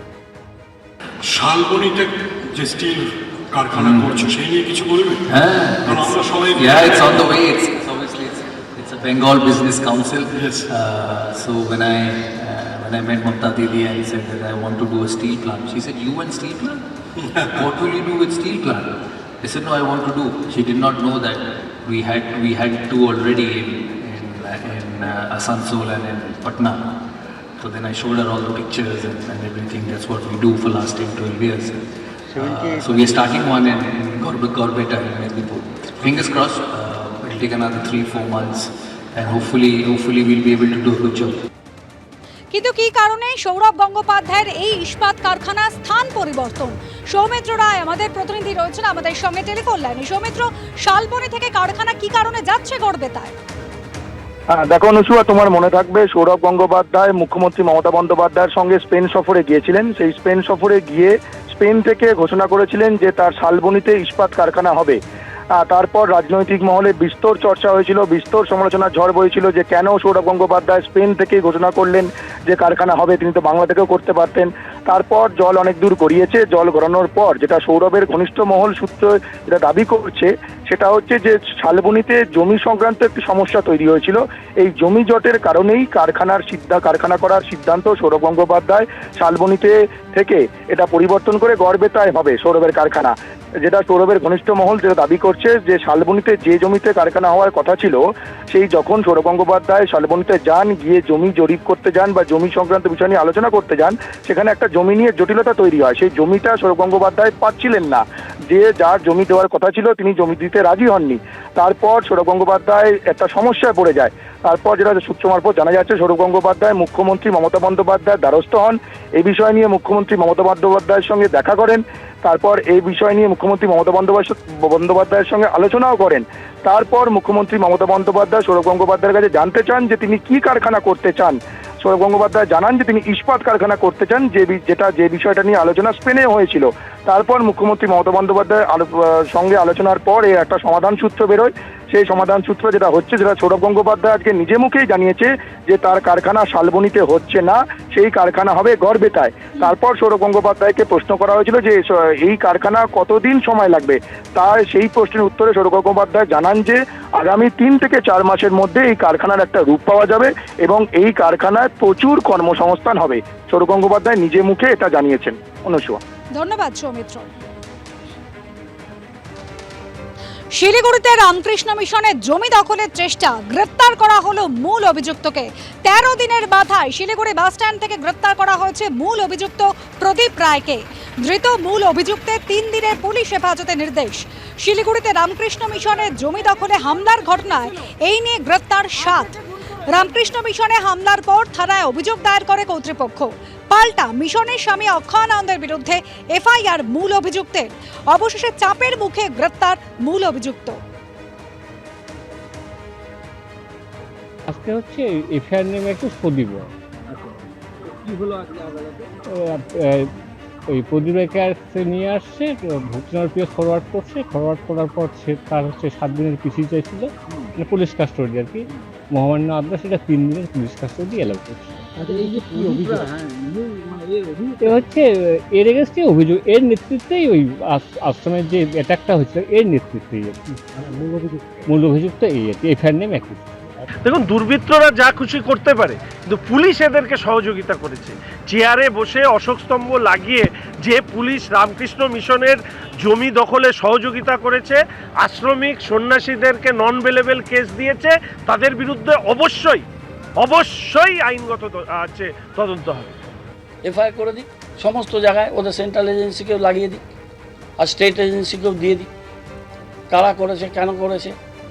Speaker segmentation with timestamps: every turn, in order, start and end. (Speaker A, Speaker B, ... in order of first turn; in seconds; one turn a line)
Speaker A: 1.2-5.3
Speaker B: 3.7-4.3
Speaker B: 5.3-16.8
Speaker A: 5.8-7.3
Speaker A: 10.4-10.7
Speaker B: 17.4-26.8
Speaker B: 27.6-31.8
Speaker B: 32.3-41.4
Speaker C: 32.4-32.9
Speaker D: 42.5-53.3
Speaker E: 54.5-65.0
Speaker E: 65.6-166.0
Speaker D: 166.3-167.2
Speaker D: 170.6-200.8
Speaker F: 204.5-206.7
Speaker G: 207.1-209.1
Speaker F: 209.3-210.1
Speaker F: 210.7-222.0
Speaker G: 221.9-224.9
Speaker F: 224.6-230.4
Speaker G: 230.8-231.7
Speaker F: 231.7-233.5
Speaker H: 234.0-249.8
Speaker H: 250.4-253.1
Speaker C: 253.8-257.0
Speaker C: 257.8-259.1
Speaker C: 260.1-261.4